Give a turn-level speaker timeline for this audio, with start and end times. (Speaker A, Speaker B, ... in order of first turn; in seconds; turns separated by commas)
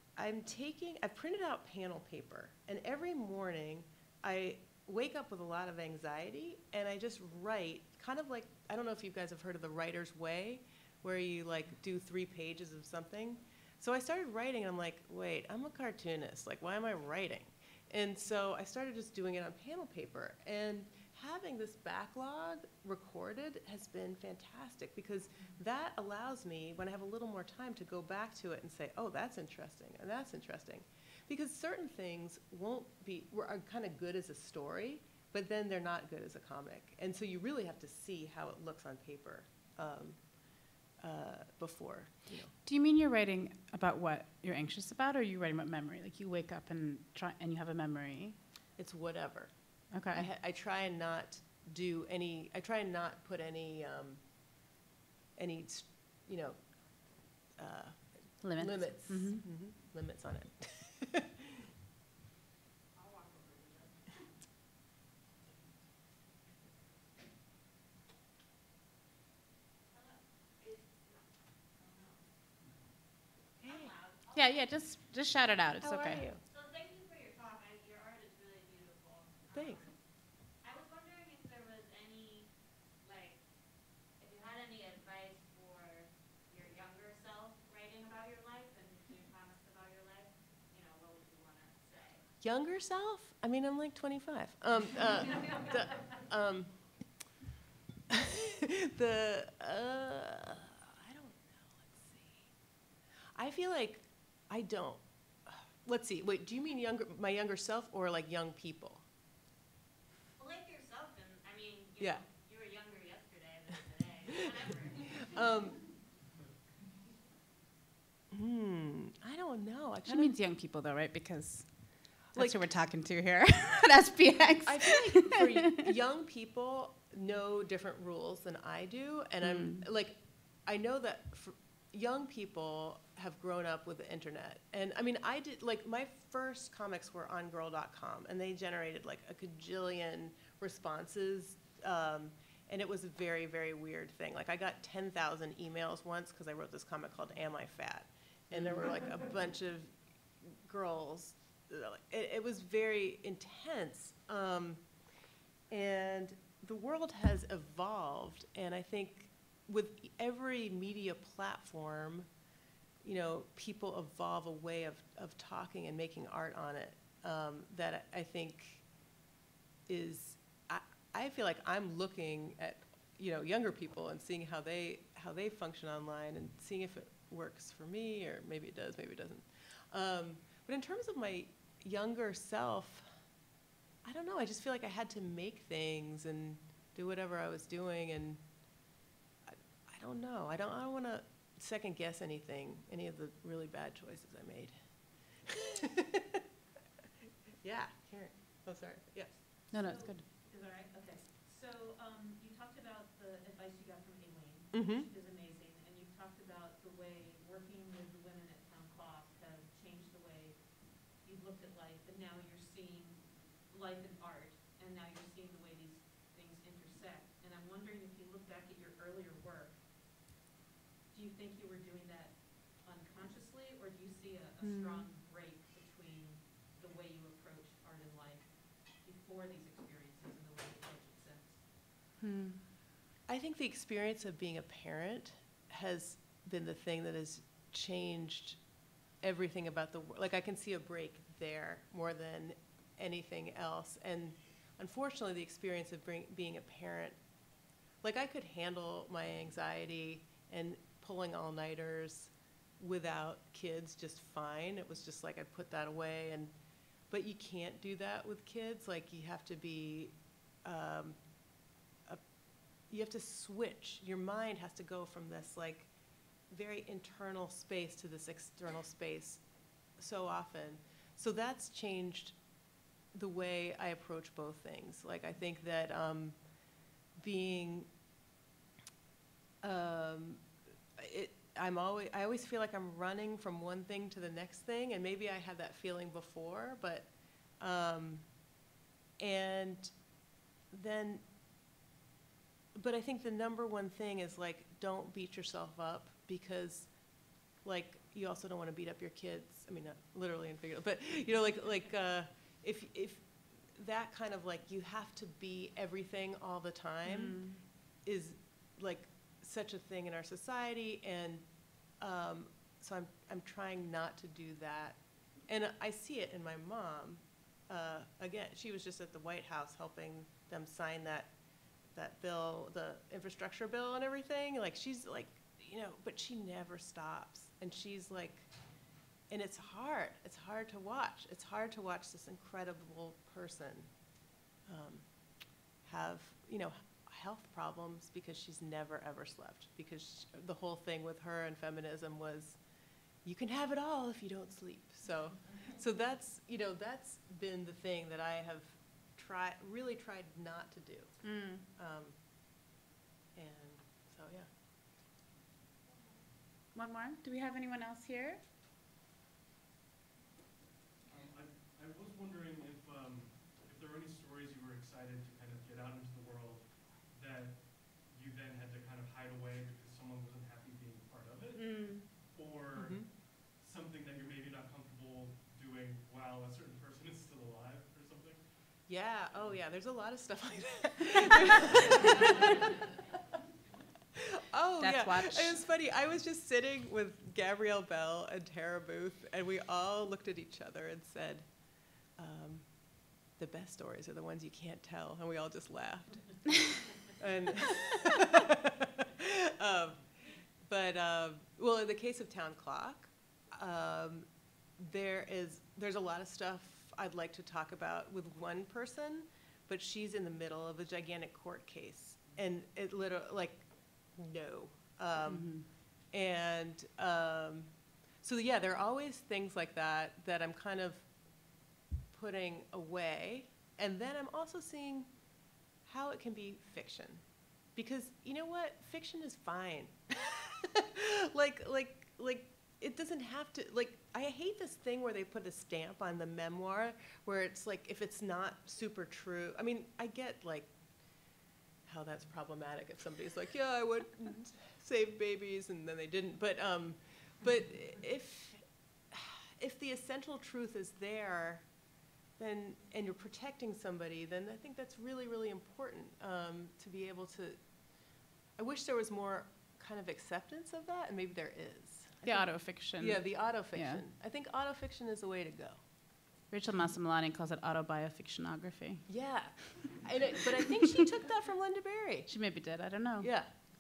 Speaker A: 0.1-40.2, Speaker A: 41.0-42.5, Speaker B: 42.6-48.4, Speaker A: 48.8-49.5, Speaker B: 49.9-50.3, Speaker A: 50.1-54.2, Speaker A: 55.4-56.6, Speaker A: 57.6-61.7, Speaker B: 58.4-59.5, Speaker C: 63.0-64.2, Speaker C: 69.9-72.2, Speaker A: 73.6-73.9, Speaker C: 73.6-74.7, Speaker B: 74.3-76.2, Speaker A: 75.8-76.4, Speaker C: 76.4-79.9, Speaker A: 79.5-79.8, Speaker C: 80.6-82.5, Speaker C: 83.0-83.4, Speaker C: 84.2-92.2, Speaker A: 92.4-96.7, Speaker C: 95.3-95.6, Speaker A: 98.1-102.5, Speaker A: 103.4-109.0, Speaker C: 110.4-115.8, Speaker A: 115.1-115.8, Speaker A: 118.3-120.3, Speaker B: 120.0-121.7, Speaker B: 122.3-125.9, Speaker A: 122.3-122.7, Speaker A: 124.6-154.8, Speaker B: 129.4-129.9, Speaker B: 148.5-149.0, Speaker A: 155.7-162.3, Speaker A: 163.0-168.8, Speaker A: 169.9-183.1, Speaker A: 184.1-188.4, Speaker A: 189.5-194.7, Speaker A: 195.4-196.4, Speaker A: 197.6-199.3, Speaker D: 199.7-210.6, Speaker B: 199.7-200.2, Speaker A: 204.7-205.1, Speaker D: 211.1-219.8, Speaker D: 221.1-231.6, Speaker B: 224.6-225.1, Speaker B: 232.2-232.6, Speaker A: 233.3-238.6, Speaker A: 239.2-247.2, Speaker A: 248.0-256.5, Speaker A: 257.1-261.2, Speaker A: 262.9-265.9, Speaker A: 266.5-269.4, Speaker A: 270.0-272.4, Speaker A: 273.1-276.4, Speaker A: 277.2-277.9, Speaker A: 279.6-280.4, Speaker A: 281.0-287.1, Speaker A: 287.6-288.2, Speaker A: 289.2-289.9, Speaker A: 290.7-291.2, Speaker A: 292.7-296.9, Speaker A: 297.6-307.4, Speaker B: 307.1-307.6, Speaker A: 308.1-311.4, Speaker A: 312.0-321.3, Speaker A: 321.9-328.5, Speaker A: 329.3-333.9, Speaker A: 334.7-335.1, Speaker A: 335.8-342.6, Speaker A: 343.2-351.1, Speaker B: 351.2-351.6, Speaker A: 351.7-352.1, Speaker A: 353.4-354.5, Speaker B: 356.7-358.4, Speaker E: 361.1-378.4, Speaker B: 371.6-372.1, Speaker A: 372.7-373.1, Speaker A: 378.9-382.8, Speaker A: 384.2-391.5, Speaker B: 384.8-385.6, Speaker A: 392.2-392.6, Speaker A: 393.4-400.1, Speaker A: 400.6-404.3, Speaker A: 404.8-415.6, Speaker B: 415.3-415.6, Speaker A: 416.1-417.7, Speaker A: 418.2-421.1, Speaker A: 422.1-425.1, Speaker A: 425.9-427.2, Speaker A: 427.8-440.7, Speaker A: 441.9-451.6, Speaker A: 452.4-457.6, Speaker A: 458.6-462.5, Speaker B: 462.2-464.0, Speaker A: 463.0-465.8, Speaker B: 466.5-469.1, Speaker A: 469.1-472.3, Speaker B: 470.6-471.1, Speaker B: 472.3-473.3, Speaker A: 473.2-473.5